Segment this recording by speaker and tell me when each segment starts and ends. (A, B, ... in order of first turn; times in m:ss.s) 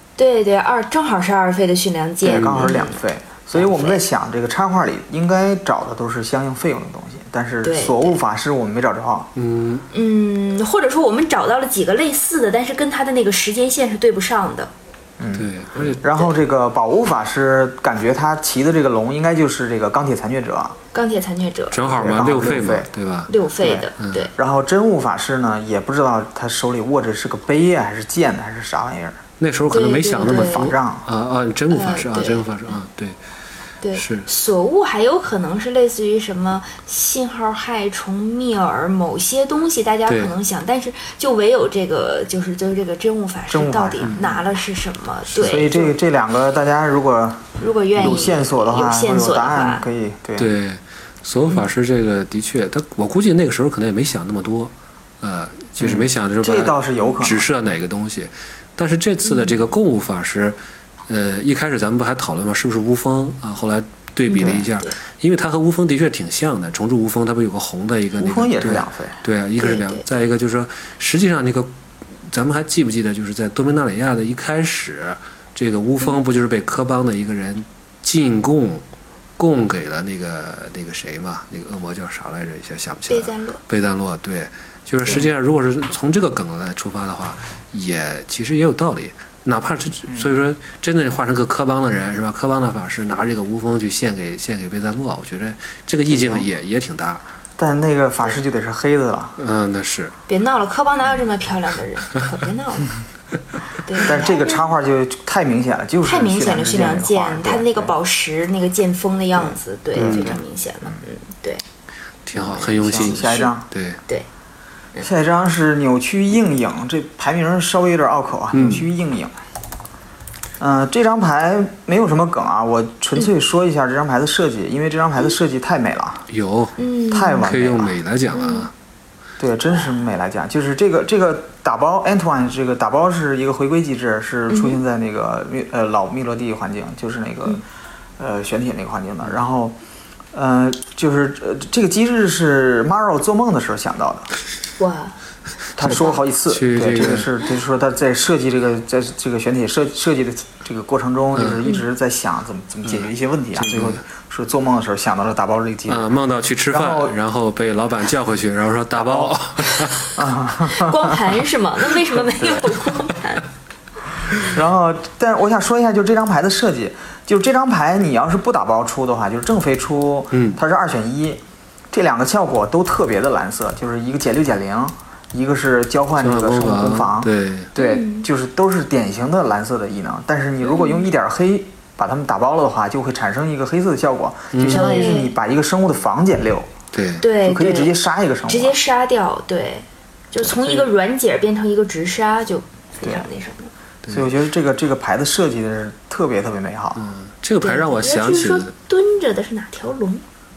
0:00.2-0:03.0 A
0:02.2-0:09.3 B
0:02.3-0:02.7 C
0:03.5-0:04.0 A
0:07.6-0:08.2 A
0:09.4-0:09.9 C
0:09.9-0:14.7 A
0:15.2-0:20.8 B
0:15.3-0:16.0 C
0:20.9-0:22.1 A
0:21.7-0:23.3 C
0:21.9-0:22.9 B
0:23.3-0:24.3 A
0:23.6-0:29.2 B
0:24.0-0:24.3 C
0:29.4-0:33.2 C
0:29.7-0:30.7 A
0:30.2-0:31.0 B
0:31.7-0:32.7 A
0:33.8-0:45.9 A
0:33.9-0:34.3 C
0:40.1-0:40.3 C
0:43.5-0:44.4 B
0:45.3-0:50.5 B
0:47.6-0:49.8 A
0:50.4-1:11.7 C
0:55.8-0:57.5 B
0:59.2-0:59.6 A
1:04.3-1:05.0 A
1:04.3-1:04.7 B
1:08.2-1:09.2 B
1:09.6-1:10.0 A
1:12.3-1:18.8 C
1:19.4-1:37.2 C
1:23.1-1:23.6 A
1:36.1-1:36.5 B
1:37.6-1:39.4 B
1:39.4-1:40.1 C
1:40.3-1:42.9 A
1:43.8-1:44.7 A
1:44.0-1:47.9 B
1:46.0-1:51.6 A
1:49.4-1:51.0 B
1:50.0-1:50.3 C
1:52.2-1:54.0 C
1:52.4-1:53.7 B
1:53.2-1:53.5 A
1:55.0-1:59.3 B
1:58.5-1:58.8 C
2:00.6-2:06.2 B
2:06.3-2:06.8 C
2:06.8-2:07.4 A
2:07.1-2:08.0 B
2:07.4-2:08.7 C
2:08.3-2:08.7 A
2:09.4-2:17.6 B
2:14.5-2:14.8 A
2:18.2-2:19.8 B
2:20.3-2:24.3 B
2:24.8-2:25.2 A
2:25.8-2:36.1 B
2:25.8-2:27.3 C
2:25.8-2:26.1 A
2:31.3-2:31.6 C
2:32.9-2:34.0 C
2:35.9-2:40.2 C
2:36.7-2:37.1 B
2:38.9-2:41.3 B
2:40.7-2:43.4 A
2:44.3-3:06.7 B
2:50.3-2:50.6 C
2:56.2-2:57.7 C
2:57.8-2:58.3 A
3:00.6-3:01.1 A
3:04.5-3:04.9 C
3:04.7-3:05.3 A
3:06.9-3:07.2 C
3:07.2-3:07.9 A
3:07.4-3:08.8 B
3:08.5-3:13.7 A
3:10.5-3:10.8 C
3:14.0-3:14.3 C
3:14.1-3:17.0 B
3:17.0-3:18.7 C
3:17.6-3:20.2 A